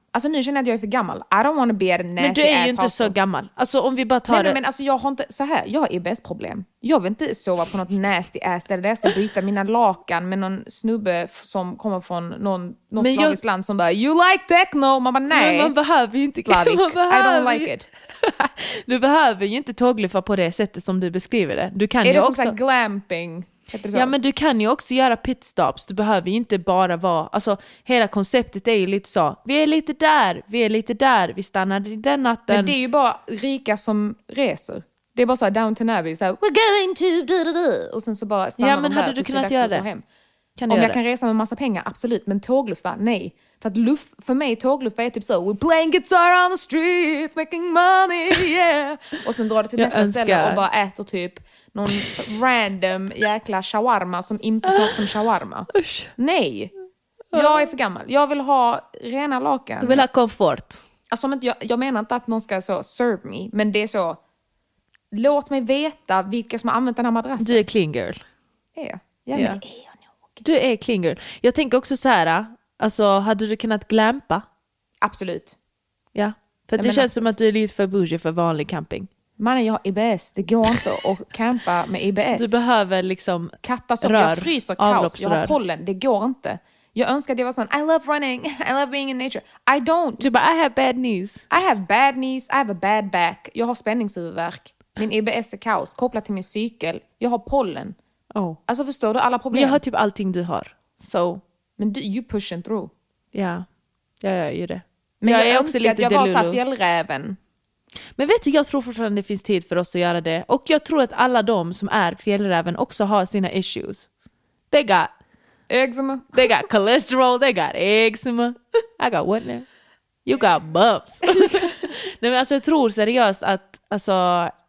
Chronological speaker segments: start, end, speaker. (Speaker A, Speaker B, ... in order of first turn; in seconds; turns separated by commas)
Speaker A: 0.1-3.1, Speaker B: 2.2-4.6, Speaker A: 4.3-15.7, Speaker B: 13.0-13.4, Speaker B: 15.3-22.6, Speaker A: 16.4-17.9, Speaker A: 22.0-24.1, Speaker B: 23.9-32.8, Speaker A: 32.5-40.0, Speaker B: 38.6-39.9, Speaker B: 40.6-41.0, Speaker A: 40.7-56.7, Speaker B: 49.8-50.6, Speaker B: 54.7-54.9, Speaker B: 55.7-56.1, Speaker B: 57.3-57.6, Speaker A: 57.3-60.1, Speaker B: 59.8-60.8, Speaker A: 61.1-64.2, Speaker A: 65.1-67.6, Speaker B: 67.4-68.2, Speaker A: 68.8-70.4, Speaker B: 69.3-69.6, Speaker B: 70.4-74.5, Speaker A: 75.0-75.6, Speaker B: 76.2-79.1, Speaker A: 76.8-77.1, Speaker A: 79.4-82.6, Speaker B: 82.3-85.6, Speaker A: 83.6-90.3, Speaker B: 90.2-91.5, Speaker A: 91.5-98.0, Speaker B: 98.3-98.6, Speaker A: 98.7-99.8, Speaker B: 99.5-101.4, Speaker A: 101.8-102.9, Speaker B: 103.3-103.7, Speaker B: 104.2-106.6, Speaker A: 105.2-107.4, Speaker B: 108.2-114.1, Speaker B: 114.7-115.1, Speaker A: 115.7-116.5, Speaker B: 116.3-119.7, Speaker B: 120.2-124.5, Speaker A: 121.4-121.7